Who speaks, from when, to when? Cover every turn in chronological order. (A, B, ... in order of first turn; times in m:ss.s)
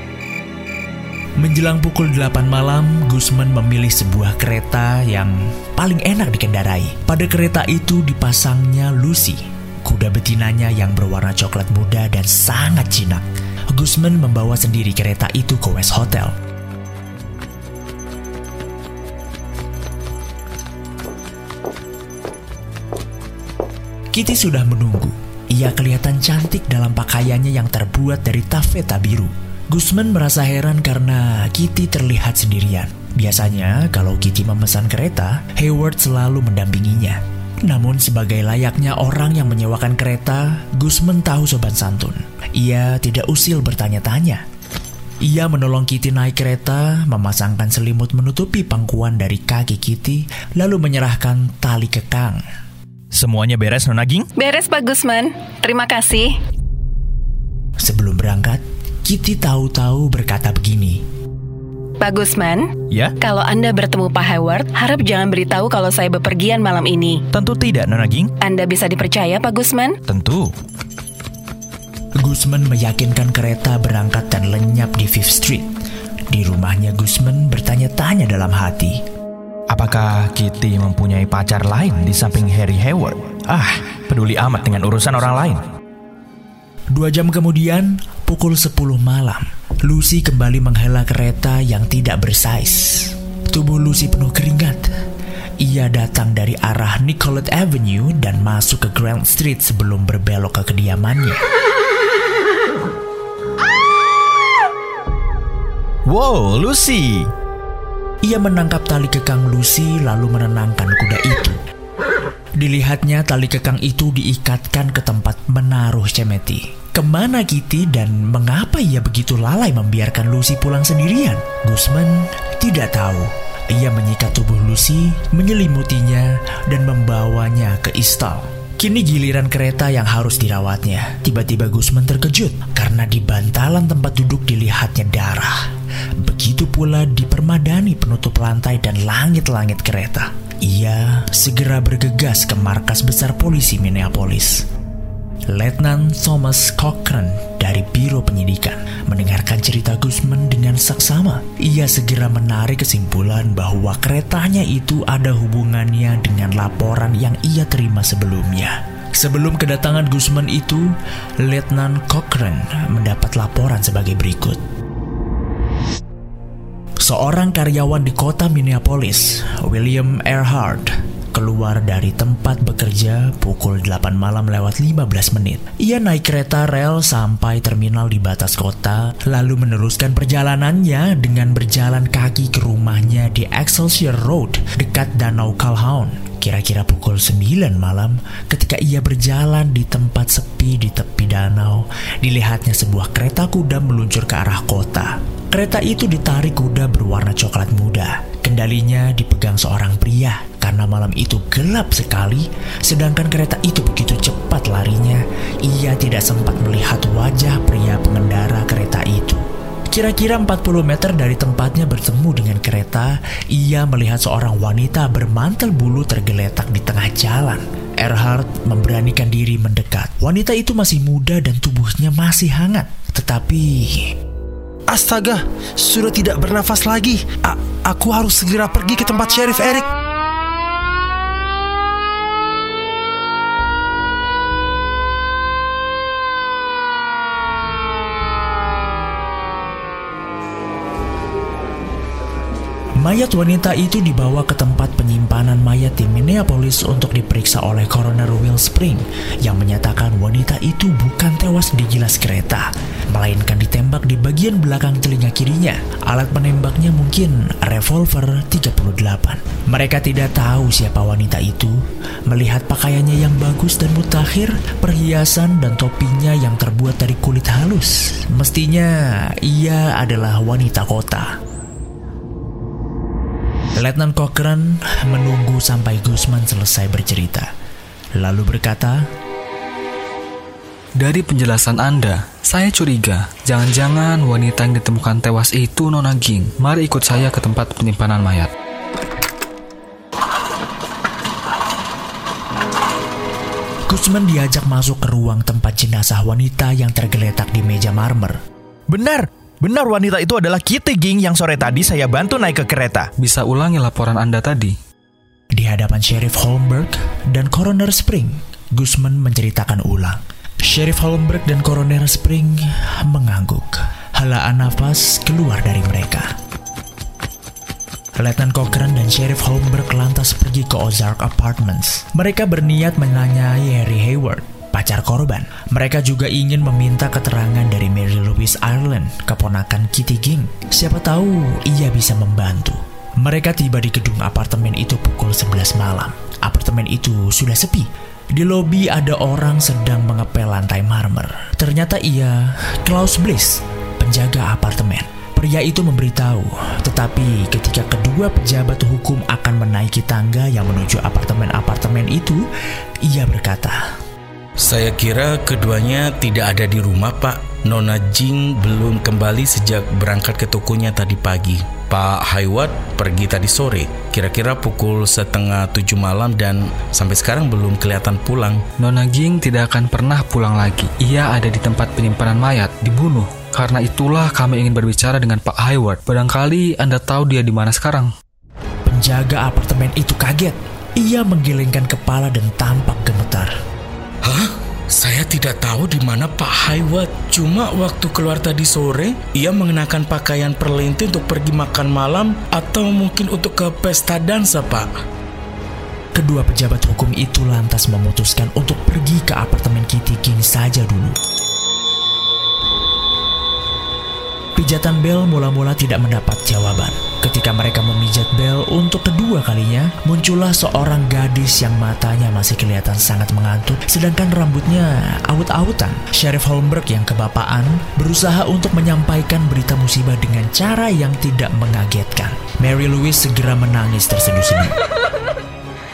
0:01.4-0:16.3 A
0:24.1-0:44.4 A
0:45.2-0:52.4 A
0:53.1-0:54.2 B
0:54.4-0:56.4 C
0:57.8-1:01.0 A
1:02.0-1:07.2 C
1:07.3-1:08.3 B
1:08.4-1:10.0 C
1:10.1-1:10.5 B
1:12.2-1:15.7 A
1:16.3-1:19.0 A
1:19.7-1:25.6 B
1:26.9-1:34.9 A
1:35.6-1:41.4 A
1:46.1-1:47.3 B
1:48.2-1:51.6 A
1:52.6-2:15.5 A
2:16.2-2:24.6 A
2:25.5-2:44.6 A
2:47.0-3:44.0 A
3:44.9-3:49.8 D
4:03.0-4:21.8 A
4:22.3-4:31.3 A
4:33.8-4:37.5 A
4:38.2-4:39.1 A
4:41.0-4:48.5 E
4:53.9-4:58.4 A
4:58.9-5:03.1 B
5:03.2-5:04.7 E
5:05.5-5:16.3 A
5:18.2-5:52.4 A
5:53.0-5:53.8 A
5:54.6-6:08.6 F
6:08.8-6:18.1 E
6:18.8-6:23.5 A
6:24.2-6:34.9 F
6:36.2-6:41.1 A
6:44.6-7:04.7 A